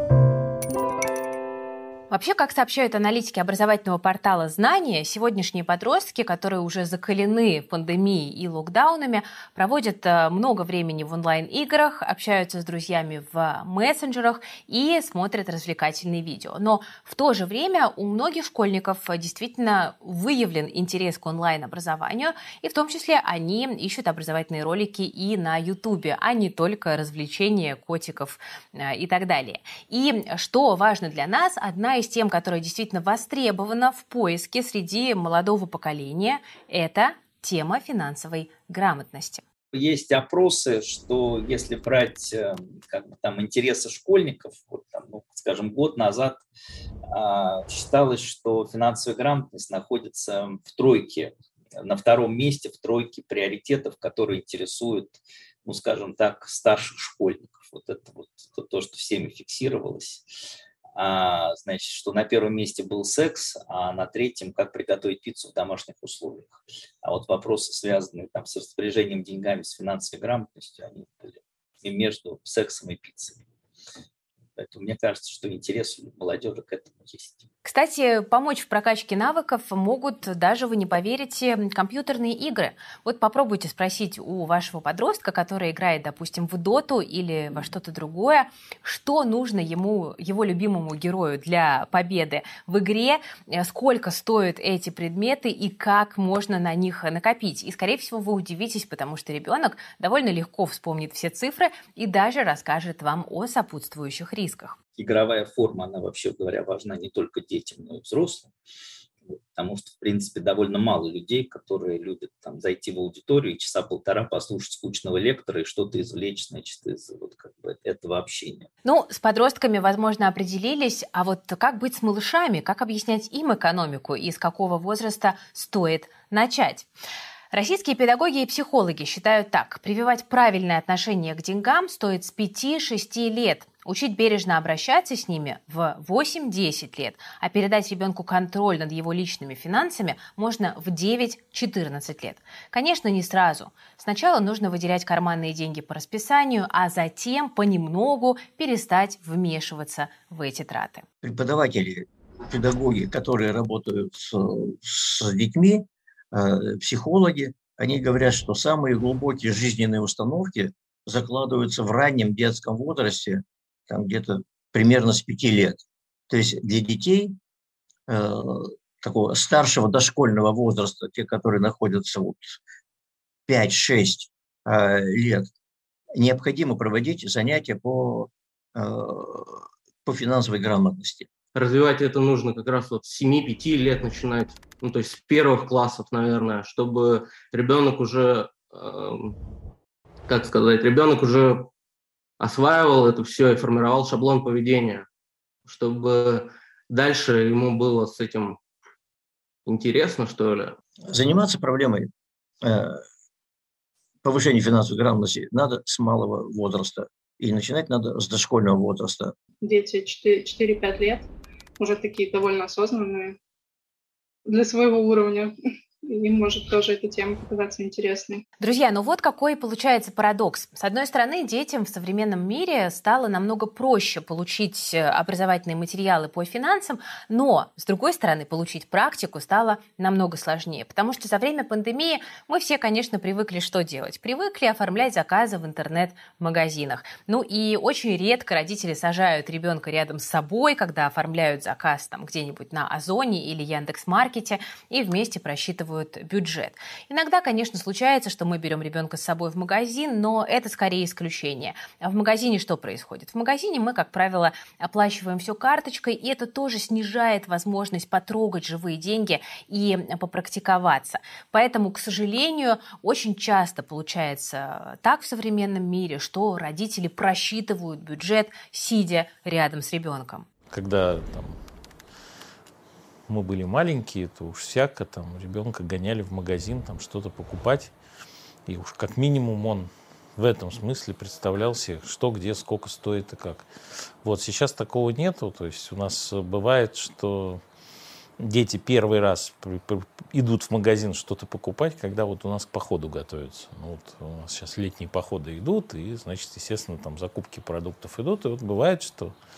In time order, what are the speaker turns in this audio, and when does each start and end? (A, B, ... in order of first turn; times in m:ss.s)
0:02.1-0:39.4 A
0:39.7-0:46.4 B
0:47.1-1:00.2 B
1:01.0-1:13.4 B
1:14.6-1:17.4 B
1:17.6-1:44.8 A
1:45.0-1:48.5 B
1:49.5-1:58.7 B
1:58.8-2:06.9 A
2:07.5-2:31.0 A
2:31.2-2:47.3 C
2:48.1-2:52.5 C
2:53.5-2:55.5 C
2:56.2-3:01.3 C
3:01.5-3:09.3 D
3:10.3-3:11.7 D
3:12.4-3:15.0 D
3:15.7-3:18.6 D
3:19.6-3:20.7 D
3:21.1-3:22.1 C
3:22.6-3:23.0 C
3:24.2-3:29.3 C
3:29.6-3:31.3 E
3:31.8-3:33.4 E
3:34.4-3:38.4 E
3:38.6-4:30.4 A
4:30.7-4:31.6 F
4:33.3-4:37.9 F
4:38.6-4:43.6 F
4:44.2-4:47.6 F
4:48.4-4:59.3 F